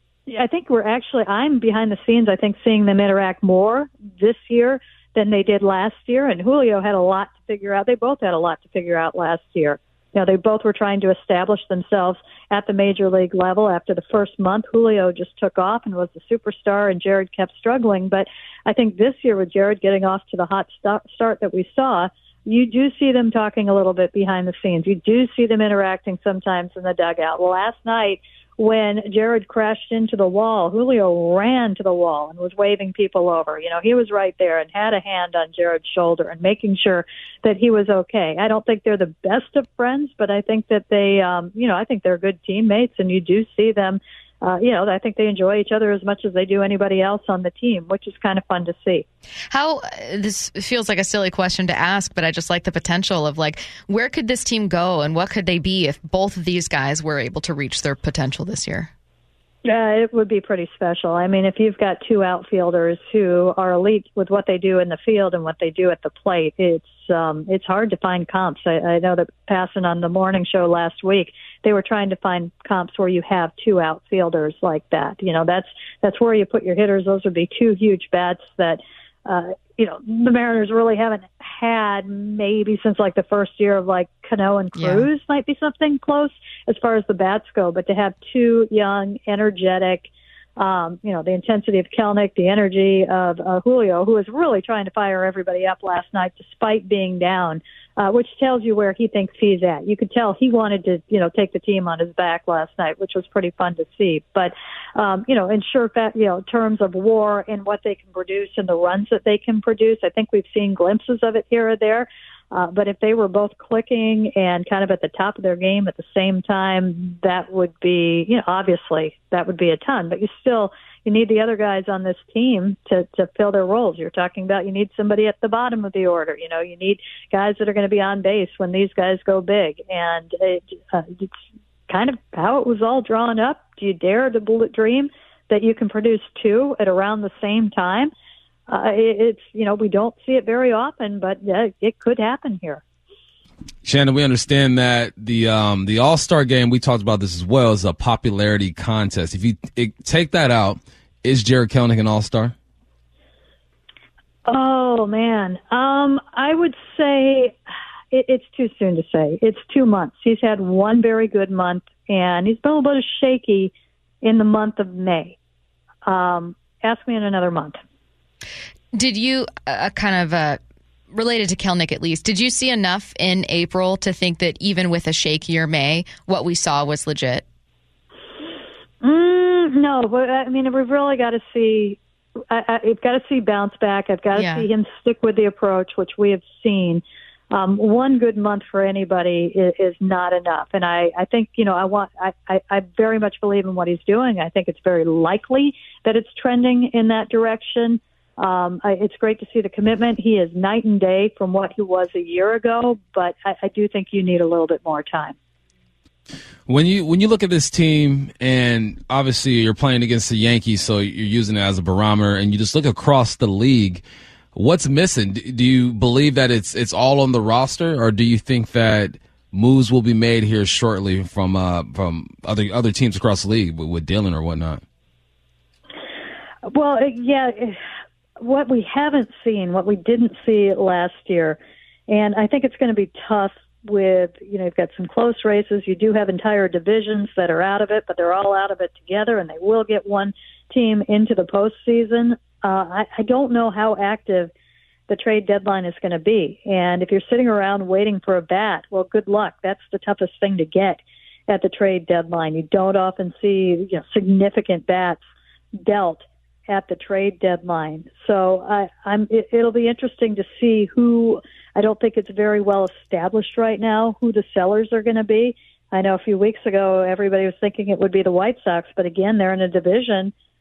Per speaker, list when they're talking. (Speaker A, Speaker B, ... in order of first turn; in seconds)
Speaker A: 0.3-49.0, 59.6-131.3, 131.9-138.1, 138.7-142.8, 154.4-157.5, 158.1-165.4, 166.0-167.8, 179.0-182.0, 182.5-205.4, 226.7-227.8, 228.4-231.6, 232.1-244.5, 245.1-255.2, 255.8-270.3
Speaker B: 49.5-58.9, 84.8-85.0, 168.9-170.6, 171.1-177.4, 184.3-184.7
Speaker C: 143.8-152.5, 206.7-214.0, 214.5-224.8